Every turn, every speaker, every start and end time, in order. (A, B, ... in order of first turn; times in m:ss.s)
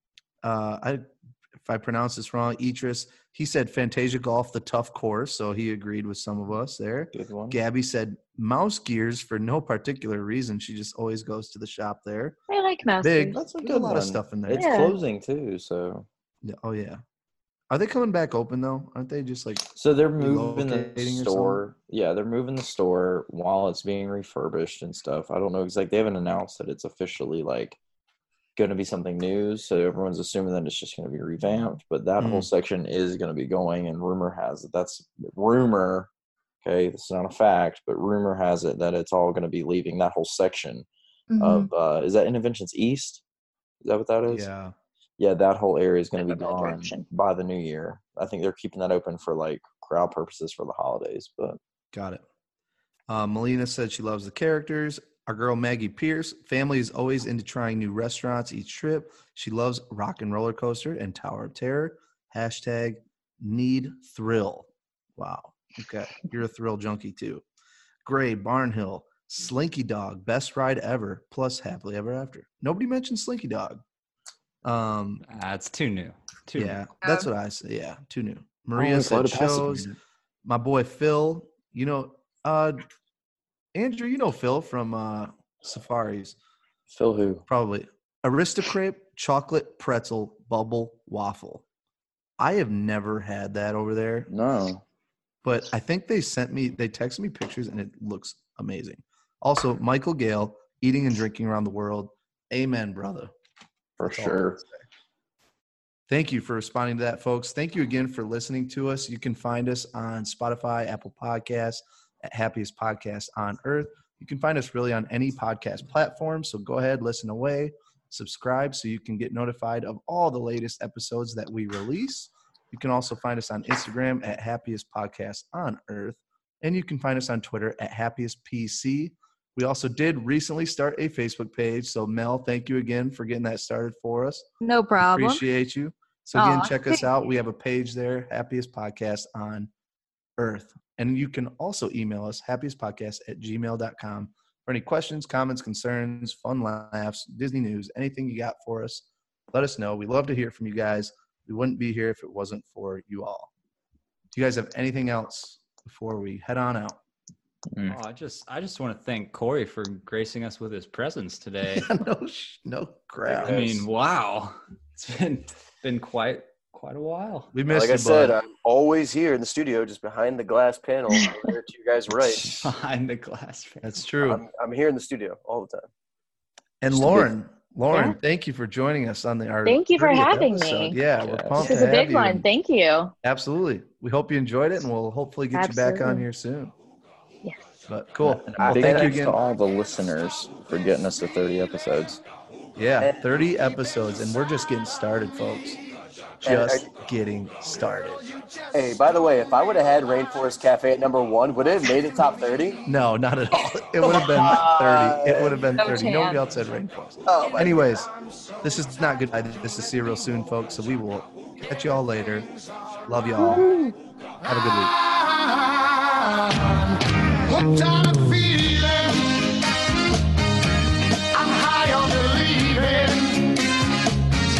0:00.4-0:01.0 A
0:01.6-0:12.4 A
0:07.1-0:07.6 B
0:12.5-0:13.5 C
0:13.0-0:14.8 A
0:13.3-0:16.1 B
0:14.5-0:14.9 C
0:16.4-0:17.0 A
0:17.7-0:21.6 A
0:19.7-0:27.8 B
0:28.6-0:36.1 B
0:32.2-0:32.5 A
0:36.6-0:40.8 B
0:41.3-0:41.7 D
0:41.4-0:43.2 B
0:43.8-0:44.5 B
0:44.3-0:44.7 A
0:45.2-0:51.6 B
0:46.2-0:47.0 C
0:51.9-0:52.2 A
0:53.1-1:07.4 A
1:08.0-1:13.8 A
1:14.6-1:15.2 A
1:15.2-1:16.8 E
1:16.6-1:19.9 A
1:17.0-1:17.3 D
1:18.7-1:20.0 B
1:20.4-1:22.8 A
1:23.7-1:26.4 A
1:26.9-1:27.4 B
1:27.5-1:31.6 A
1:32.4-1:34.3 A
1:34.3-1:34.8 B
1:35.4-1:43.3 A
1:44.0-1:44.6 B
1:44.0-1:44.8 A
1:46.1-2:14.5 A
2:14.6-2:15.4 D
2:15.0-2:19.7 A
2:16.3-2:17.1 D
2:20.4-2:33.5 A
2:34.3-2:37.0 A
2:37.7-2:38.0 B
2:37.8-2:41.9 E
2:41.7-2:43.8 A
2:43.3-2:43.7 F
2:43.3-2:47.5 E
2:47.5-2:48.4 A
2:47.7-2:52.6 F
2:52.4-2:54.0 E
2:53.8-2:54.4 A
2:54.2-2:55.9 F
2:56.8-3:02.5 A
2:56.9-2:57.3 F
2:57.9-2:58.2 C
2:59.6-3:01.0 C
3:01.2-3:01.9 B
3:01.6-3:03.1 C
3:03.2-3:06.7 A
3:05.5-3:06.2 C
3:07.9-3:09.4 A
3:08.2-3:12.2 B
3:08.4-3:09.2 F
3:12.8-3:15.8 A
3:16.4-3:18.3 A
3:16.4-3:16.9 F
3:18.7-3:22.8 F
3:22.8-3:28.1 A
3:24.1-3:24.9 C
3:24.1-3:25.6 F
3:25.7-3:26.4 C
3:27.2-3:28.0 F
3:28.6-3:32.5 A
3:33.1-3:33.7 A
3:34.4-3:34.9 A
3:35.0-3:39.5 G
3:41.3-3:43.6 G